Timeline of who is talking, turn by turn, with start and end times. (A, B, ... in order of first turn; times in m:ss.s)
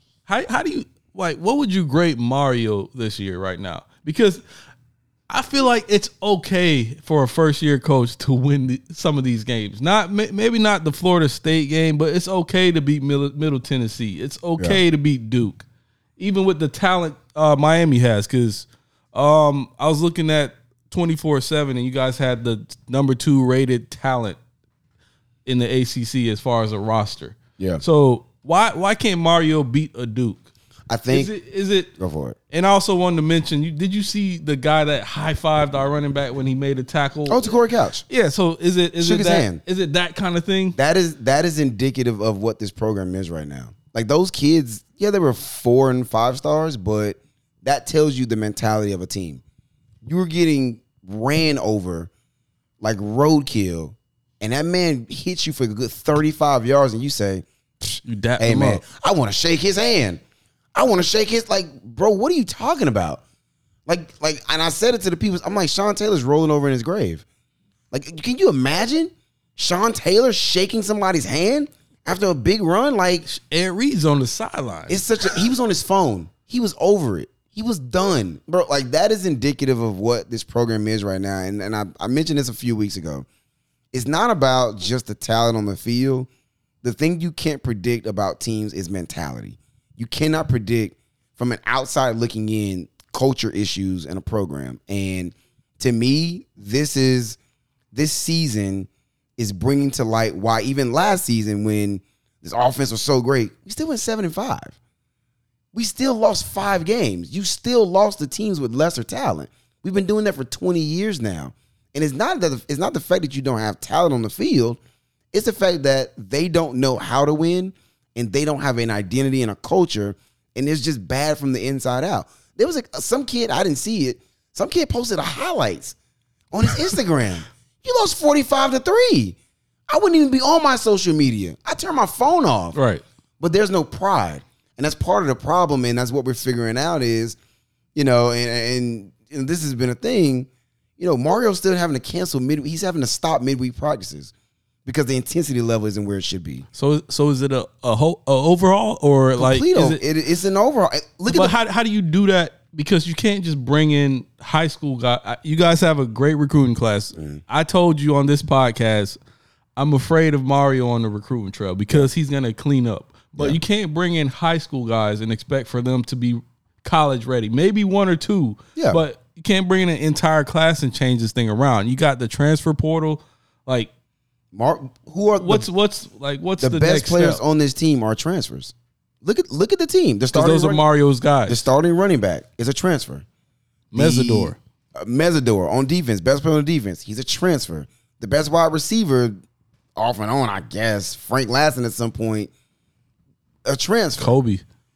0:00.3-0:04.4 A
0:05.3-0:15.6 A
0:16.2-0:24.4 A
0:25.4-0:30.4 A
0:30.9-0:31.3 B
0:31.1-0:31.9 A
0:32.0-0:32.4 B
0:32.5-0:37.6 A
0:37.3-0:38.0 B
0:38.1-0:40.8 A
0:39.0-0:39.6 B
0:40.7-0:49.4 B
0:50.0-0:52.1 B
0:52.8-1:00.2 B
0:58.0-0:58.8 A
1:00.7-1:03.2 B
1:03.8-1:07.2 B
1:07.9-1:13.2 B
1:13.2-1:15.0 A
1:14.9-1:23.2 B
1:23.9-1:26.3 B
1:26.8-1:37.4 B
1:37.9-1:44.8 B
1:45.7-1:54.8 B
1:55.3-2:05.9 B
2:06.5-2:09.4 B
2:09.9-2:12.8 B
2:12.7-2:13.0 A
2:13.4-2:17.4 B
2:17.9-2:24.3 B
2:24.8-2:26.6 B
2:26.7-2:30.0 A
2:29.4-2:31.5 B
2:31.3-2:39.2 A
2:37.1-2:37.4 B
2:39.8-2:53.9 A
2:48.8-2:49.0 B
2:54.5-2:55.7 B
2:55.4-2:57.4 A
2:56.6-3:00.8 B
3:00.3-3:01.6 A
3:01.4-3:03.2 B
3:03.9-3:04.6 A
3:03.9-3:09.4 B
3:10.0-3:12.5 B
3:13.6-3:14.4 B
3:14.2-3:14.6 A